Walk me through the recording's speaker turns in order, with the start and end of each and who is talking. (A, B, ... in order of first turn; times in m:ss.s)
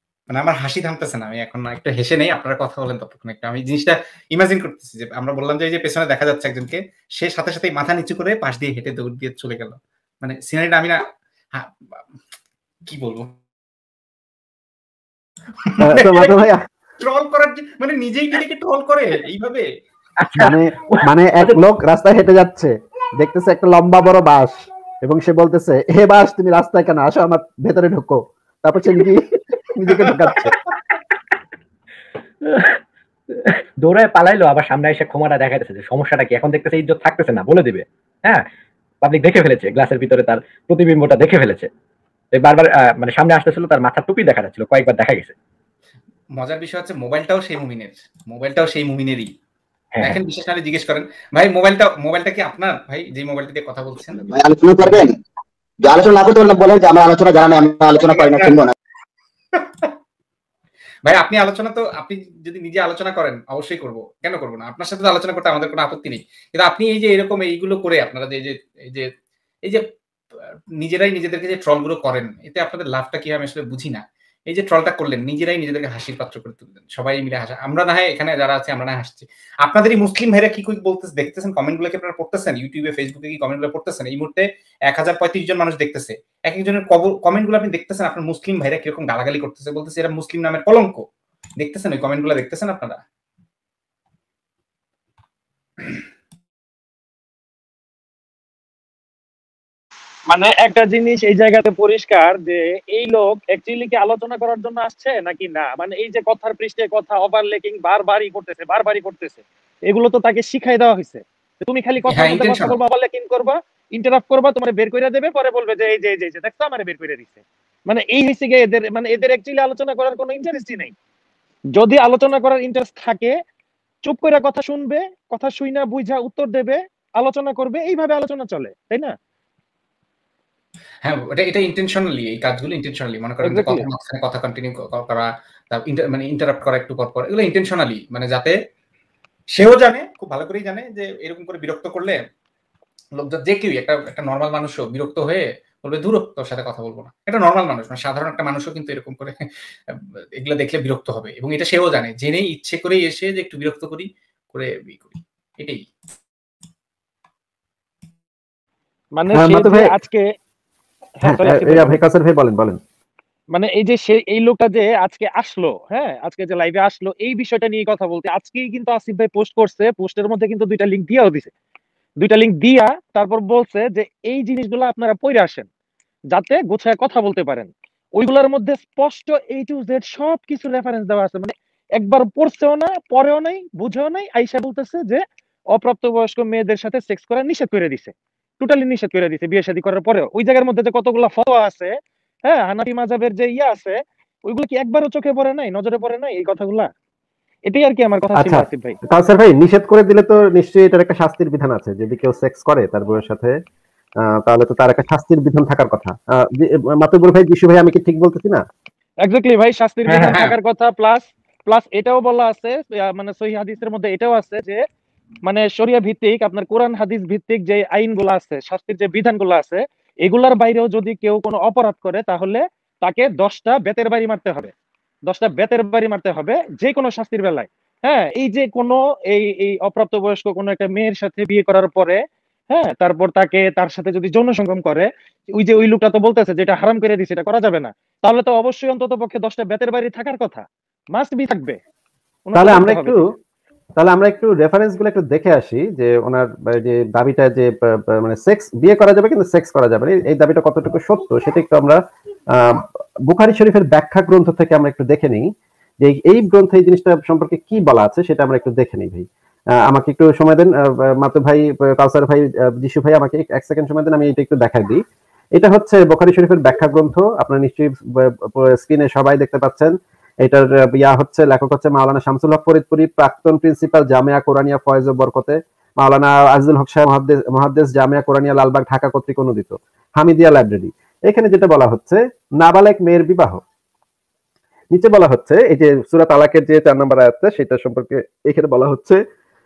0:00.3-0:11.7 A
0:12.9-0:13.3 A
0:15.6-0:16.4 A
0:15.8-0:16.6 B
0:17.0-0:19.7 A
0:20.2-0:21.0 C
0:20.3-0:30.6 B
0:32.5-0:32.8 C
0:33.4-0:38.5 C
0:39.0-0:41.7 C
0:42.3-0:45.3 C
0:46.3-0:49.3 A
0:49.9-0:50.2 C
0:50.0-0:54.2 A
0:54.2-0:55.2 D
0:55.8-0:58.7 D
0:58.2-0:58.5 A
0:59.5-0:59.9 A
1:01.0-1:09.1 A
1:10.8-1:31.0 A
1:31.6-1:33.0 A
1:40.3-2:00.9 E
1:52.1-1:52.8 A
2:01.7-2:03.3 E
2:04.0-2:09.1 E
2:11.0-2:18.6 A
2:13.4-2:13.9 E
2:19.5-2:22.2 A
2:23.2-2:35.8 A
2:39.1-2:40.2 E
2:39.3-2:39.9 B
2:41.2-2:42.0 E
2:41.2-2:42.8 B
2:43.5-2:51.5 E
2:52.2-2:55.6 E
2:56.3-3:11.9 E
3:12.4-3:16.9 E
3:17.7-3:19.0 E
3:18.4-3:23.6 B
3:24.2-3:28.6 B
3:29.2-3:34.8 E
3:30.1-3:30.4 C
3:30.3-3:30.6 A
3:35.4-3:44.7 E
3:45.3-4:01.8 E
4:02.5-4:03.3 E
4:02.5-4:03.2 B
4:04.0-4:12.0 B
4:12.5-4:15.5 B
4:16.0-4:19.3 B
4:19.8-4:25.0 B
4:25.6-4:29.9 B
4:30.4-4:43.6 B
4:44.9-4:49.2 B